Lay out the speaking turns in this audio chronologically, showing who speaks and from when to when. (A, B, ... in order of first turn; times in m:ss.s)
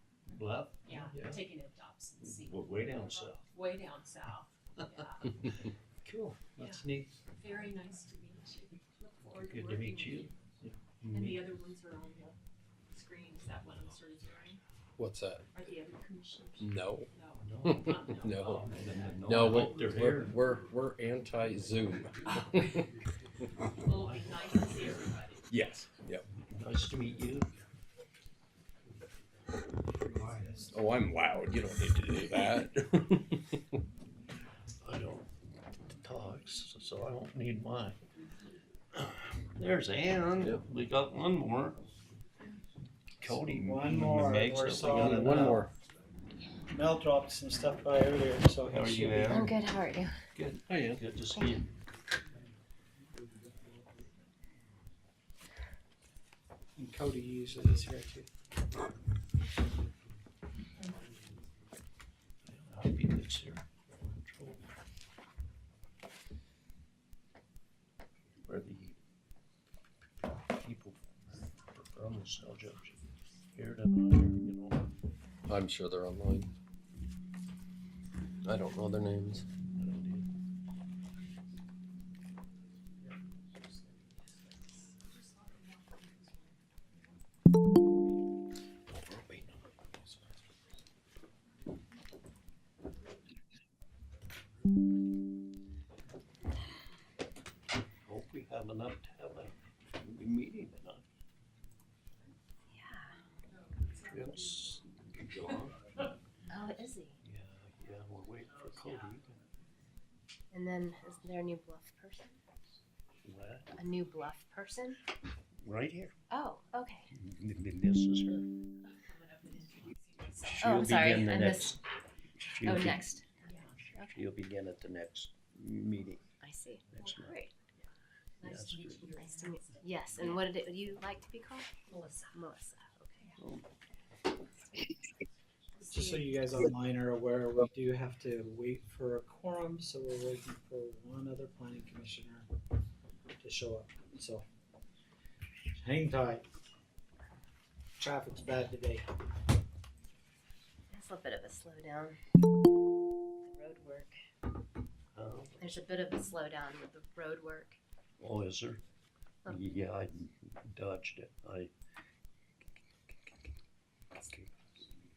0:00.3-0:01.4 A
0:00.8-0:05.6 B
0:02.2-0:03.5 A
0:06.0-0:07.2 A
0:06.6-0:06.8 B
0:07.4-0:10.4 B
0:09.3-0:11.5 A
0:11.1-0:12.4 B
0:12.9-0:14.6 B
0:15.0-0:15.5 C
0:15.5-0:19.2 B
0:16.6-0:17.1 C
0:17.4-0:20.4 A
0:17.6-0:18.7 C
0:19.2-0:23.0 C
0:23.8-0:25.5 B
0:23.8-0:25.0 A
0:25.5-0:26.3 C
0:26.3-0:27.5 A
0:30.0-0:30.7 D
0:30.6-0:33.6 C
0:34.8-0:35.3 A
0:35.9-0:38.0 A
0:38.9-0:41.8 A
0:43.2-0:45.6 A
0:43.2-0:45.7 D
0:44.9-0:45.7 C
0:46.7-0:49.5 D
0:48.7-0:49.5 A
0:49.2-0:50.2 E
0:50.3-0:51.7 A
0:50.7-0:51.0 C
0:56.8-0:58.3 D
1:02.5-1:04.7 A
1:08.4-1:09.0 A
1:10.5-1:13.0 A
1:13.5-1:14.9 A
1:15.5-1:16.5 C
1:18.4-1:19.5 C
1:19.8-1:20.3 A
1:29.1-1:29.6 C
1:38.0-1:41.0 A
1:42.7-1:43.2 E
1:44.0-1:45.8 A
1:46.5-1:47.2 E
1:47.2-1:49.4 A
1:50.5-1:52.4 E
1:53.2-1:53.7 A
1:53.7-1:55.0 E
1:55.6-1:56.2 A
1:56.3-1:57.1 E
1:57.1-1:58.5 A
1:59.1-2:01.3 B
2:00.5-2:01.8 A
2:00.5-2:01.8 E
2:02.5-2:03.1 A
2:02.6-2:04.2 E
2:03.5-2:03.9 B
2:04.1-2:06.3 A
2:06.4-2:07.6 E
2:06.9-2:07.3 A
2:08.4-2:10.4 B
2:08.4-2:09.1 A
2:09.2-2:11.7 E
2:11.8-2:12.4 B
2:12.3-2:13.3 E
2:13.4-2:13.7 A
2:15.8-2:16.4 B
2:15.9-2:22.5 D
2:23.4-2:24.4 D
2:25.7-2:26.4 D
2:28.0-2:29.0 D
2:30.9-2:32.2 E
2:33.4-2:34.2 E
2:35.2-2:35.7 A
2:35.6-2:37.8 E
2:38.2-2:38.8 A
2:39.5-2:41.7 A
2:44.2-2:44.5 A